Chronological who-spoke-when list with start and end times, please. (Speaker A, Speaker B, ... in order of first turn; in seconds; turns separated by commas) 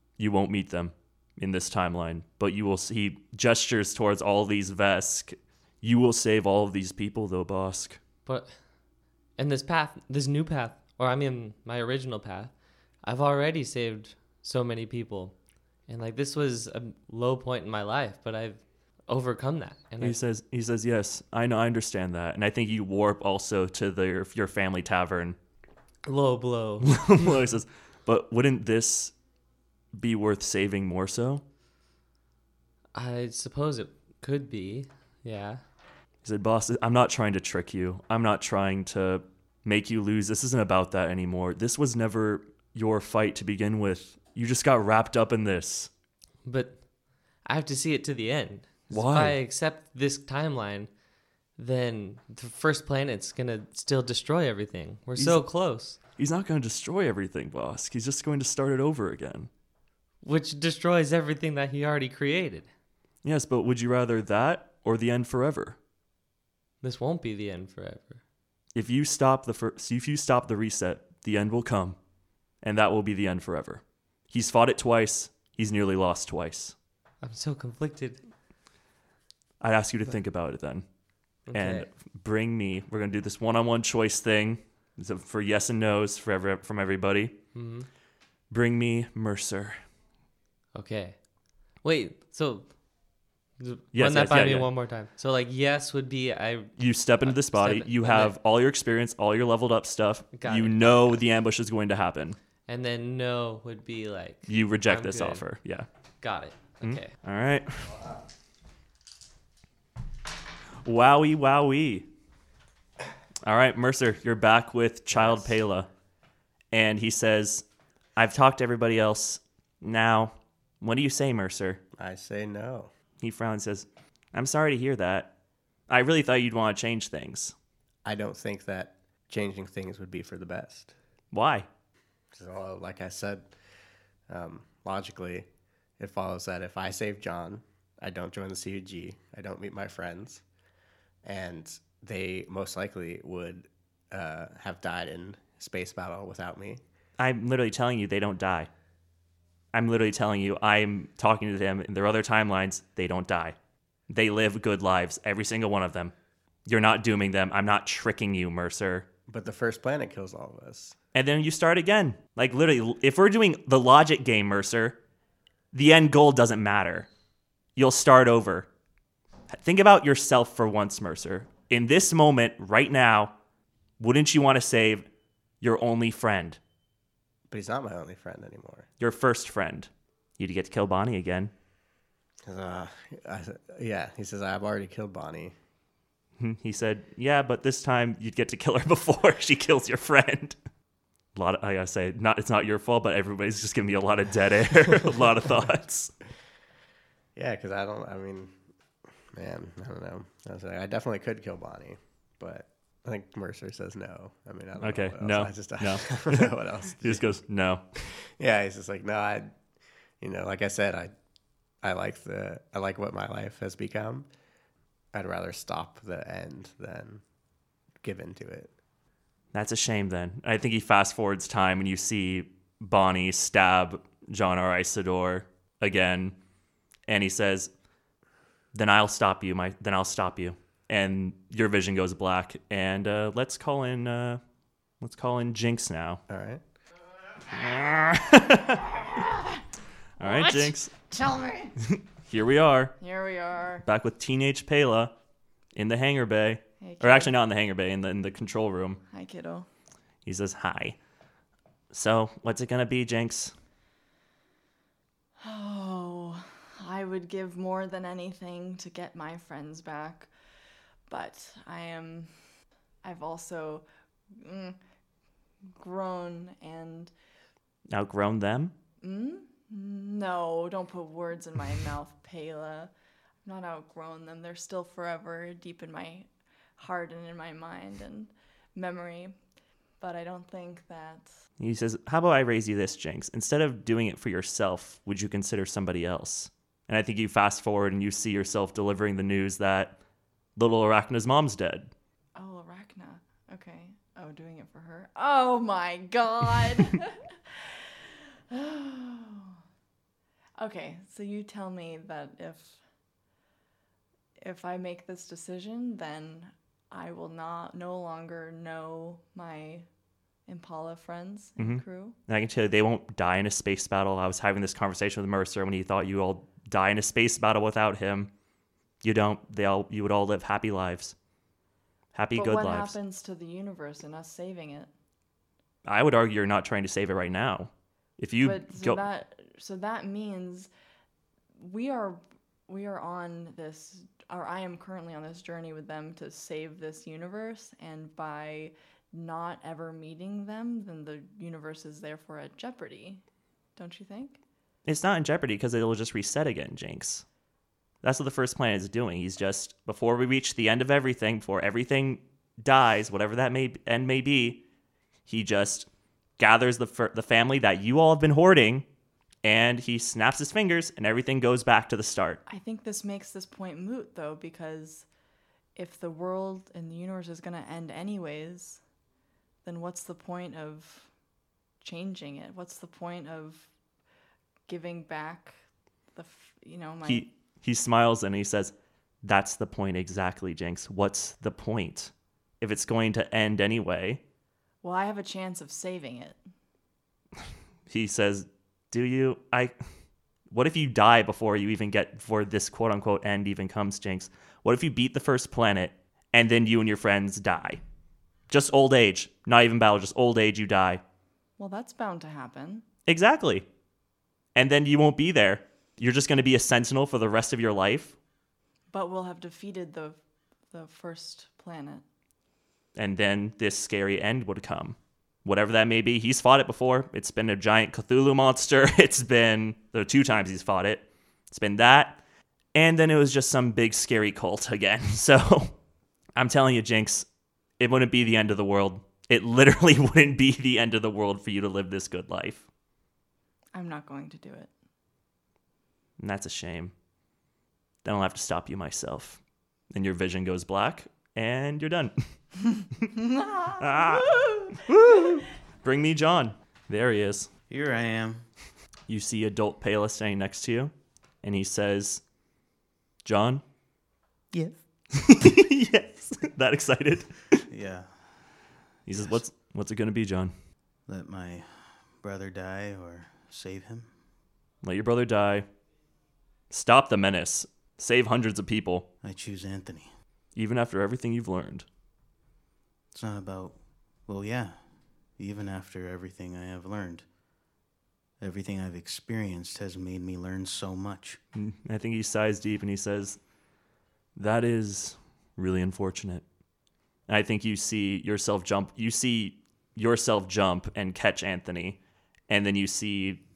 Speaker A: 0.2-8.0, Speaker B: 8.3-8.5, Speaker B: 9.4-12.5, Speaker B: 13.0-15.3, Speaker B: 15.9-20.2, Speaker A: 20.0-25.4, Speaker B: 26.1-27.4, Speaker A: 26.8-29.1, Speaker A: 29.9-31.4, Speaker B: 32.9-35.6, Speaker A: 36.2-45.9, Speaker B: 46.5-46.9, Speaker B: 47.4-50.9, Speaker A: 48.9-49.4, Speaker B: 51.5-56.0, Speaker A: 55.2-59.5, Speaker B: 60.2-62.7, Speaker A: 63.2-65.8, Speaker B: 66.8-68.2, Speaker A: 68.8-72.0, Speaker A: 72.6-76.8, Speaker B: 77.2-78.2, Speaker A: 79.6-80.8, Speaker B: 81.5-81.9, Speaker A: 81.5-87.4, Speaker B: 87.5-87.9, Speaker A: 88.5-89.8, Speaker B: 90.8-91.2, Speaker B: 91.8-92.7, Speaker B: 93.6-98.3, Speaker A: 93.9-94.7, Speaker A: 96.8-102.4, Speaker B: 100.3-101.2, Speaker B: 102.7-105.4, Speaker A: 104.5-105.9, Speaker B: 106.2-107.1, Speaker A: 106.8-107.9, Speaker A: 110.8-112.1, Speaker A: 113.5-115.9, Speaker A: 116.7-121.8, Speaker C: 122.0-122.9, Speaker A: 123.2-125.3, Speaker A: 125.9-127.5, Speaker C: 128.1-130.9, Speaker A: 131.3-131.7, Speaker C: 132.3-133.5, Speaker C: 134.3-135.5, Speaker C: 136.0-140.4, Speaker C: 141.2-146.8, Speaker A: 147.2-148.7, Speaker A: 149.7-153.6, Speaker A: 154.1-156.1, Speaker A: 156.7-159.1, Speaker C: 159.3-160.9, Speaker A: 161.1-165.0, Speaker A: 165.7-167.1, Speaker A: 167.8-168.7, Speaker A: 169.5-173.3, Speaker A: 174.0-175.1, Speaker A: 175.6-176.6, Speaker C: 177.5-178.9, Speaker A: 179.0-181.5, Speaker C: 182.5-185.5, Speaker A: 186.4-190.6, Speaker A: 191.3-196.1, Speaker C: 197.4-198.5, Speaker C: 199.3-207.3, Speaker A: 204.8-207.8, Speaker C: 208.4-209.5, Speaker C: 210.2-211.1, Speaker C: 211.8-214.3, Speaker C: 215.1-217.2, Speaker C: 218.0-218.7, Speaker A: 219.5-226.3, Speaker A: 227.1-227.7, Speaker A: 228.7-234.4, Speaker A: 235.0-236.2, Speaker C: 236.3-236.6, Speaker A: 237.5-238.9, Speaker D: 239.1-239.6, Speaker A: 240.2-240.9, Speaker D: 240.2-241.7, Speaker A: 241.9-243.0, Speaker D: 243.0-243.8, Speaker A: 243.8-245.1, Speaker A: 245.8-249.0, Speaker D: 246.8-247.3, Speaker D: 249.1-249.7, Speaker A: 250.2-251.0, Speaker A: 251.9-253.5, Speaker D: 255.4-260.3, Speaker D: 261.1-262.3, Speaker D: 263.0-263.9, Speaker D: 264.4-264.8, Speaker D: 265.8-267.1, Speaker A: 267.9-268.7, Speaker D: 269.0-272.9, Speaker D: 273.4-276.3, Speaker D: 276.8-279.4, Speaker D: 280.0-281.3, Speaker A: 281.6-290.0, Speaker A: 290.6-291.9, Speaker D: 292.4-299.6, Speaker D: 300.6-302.8, Speaker D: 304.4-309.9, Speaker D: 310.5-312.2, Speaker A: 311.6-318.3, Speaker A: 319.0-321.1, Speaker A: 322.1-322.9, Speaker D: 322.4-324.9, Speaker A: 325.9-329.0, Speaker D: 328.4-330.7, Speaker D: 331.6-343.2, Speaker D: 343.8-344.4, Speaker A: 344.9-347.2, Speaker A: 348.0-354.6, Speaker A: 355.3-355.9, Speaker A: 356.4-358.9, Speaker A: 359.4-362.4, Speaker D: 362.5-365.1, Speaker D: 365.8-368.8, Speaker D: 369.6-371.1, Speaker D: 371.8-373.7, Speaker D: 374.7-375.6, Speaker D: 376.1-377.3, Speaker A: 377.1-384.2, Speaker D: 384.8-386.4, Speaker A: 387.9-389.8, Speaker A: 390.5-397.8, Speaker A: 398.5-401.0, Speaker D: 401.6-402.9, Speaker A: 403.1-403.7, Speaker A: 404.6-408.1, Speaker D: 408.9-410.2, Speaker D: 410.7-412.0, Speaker A: 413.0-422.2, Speaker A: 422.8-425.7, Speaker A: 426.4-427.3, Speaker A: 427.8-432.6, Speaker D: 433.7-434.7, Speaker A: 436.2-436.9, Speaker A: 438.0-442.2, Speaker D: 443.2-444.8, Speaker A: 443.8-447.5, Speaker E: 447.7-448.4, Speaker A: 449.1-450.9, Speaker A: 451.4-452.2, Speaker A: 453.2-453.6, Speaker E: 454.5-454.8, Speaker A: 455.1-457.6, Speaker E: 457.7-458.1, Speaker A: 459.1-460.5, Speaker E: 461.1-464.1, Speaker A: 464.8-465.7, Speaker A: 466.7-469.1, Speaker E: 469.2-470.1, Speaker A: 470.6-471.9, Speaker E: 473.1-473.8, Speaker E: 474.3-474.8, Speaker E: 475.4-477.2, Speaker E: 478.4-481.4, Speaker A: 481.6-483.4, Speaker A: 484.4-486.4, Speaker A: 487.3-493.4